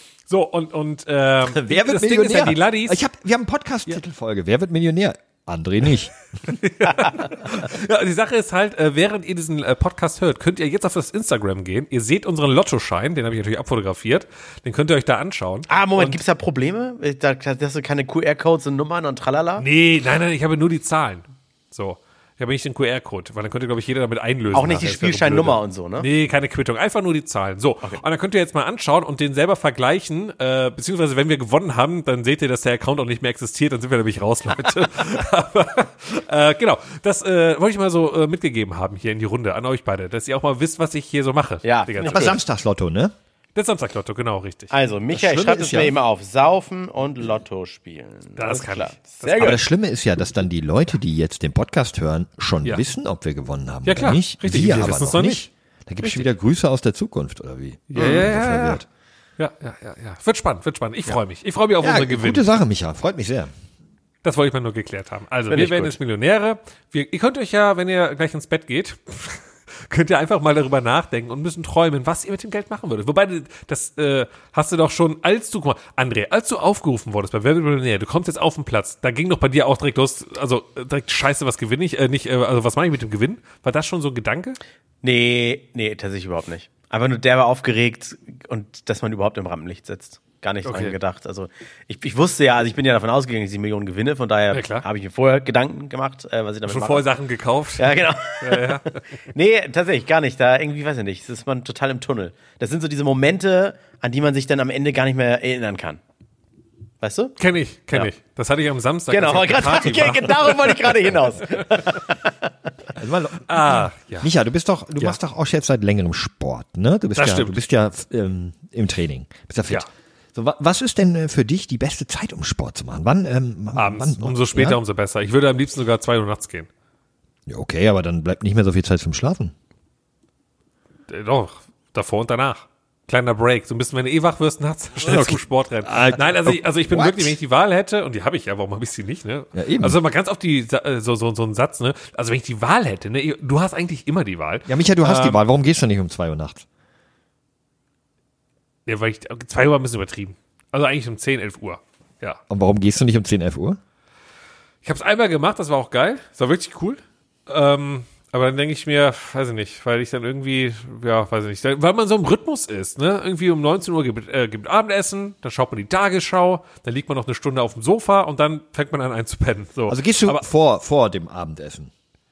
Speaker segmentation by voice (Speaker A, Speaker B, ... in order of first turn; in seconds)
Speaker A: 0.3-3.0, 6.5-16.2, 19.6-42.4, 43.5-44.7, 48.4-49.6, 53.9-55.5, 56.0-56.3, 57.9-58.8, 59.4-62.4, 64.2-84.6, 90.7-90.9, 94.5-94.8, 96.7-99.0, 107.4-111.0, 111.6-111.9, 113.5-114.3, 117.1-117.6, 123.7-126.7, 131.1-145.4, 148.9-152.4, 154.8-170.4
Speaker B: 1.4-6.5, 42.0-43.1, 45.1-45.9, 49.4-58.8, 61.8-63.5, 113.0-124.8, 127.5-129.5, 135.0-137.4, 139.5-140.0, 144.7-146.6, 152.5-153.8, 169.9-171.9
Speaker C: 6.8-7.5, 15.7-19.6, 24.5-26.1, 41.6-42.4, 44.7-49.6, 65.5-66.0, 85.0-97.1, 97.8-106.0, 107.0-107.3, 109.1-112.5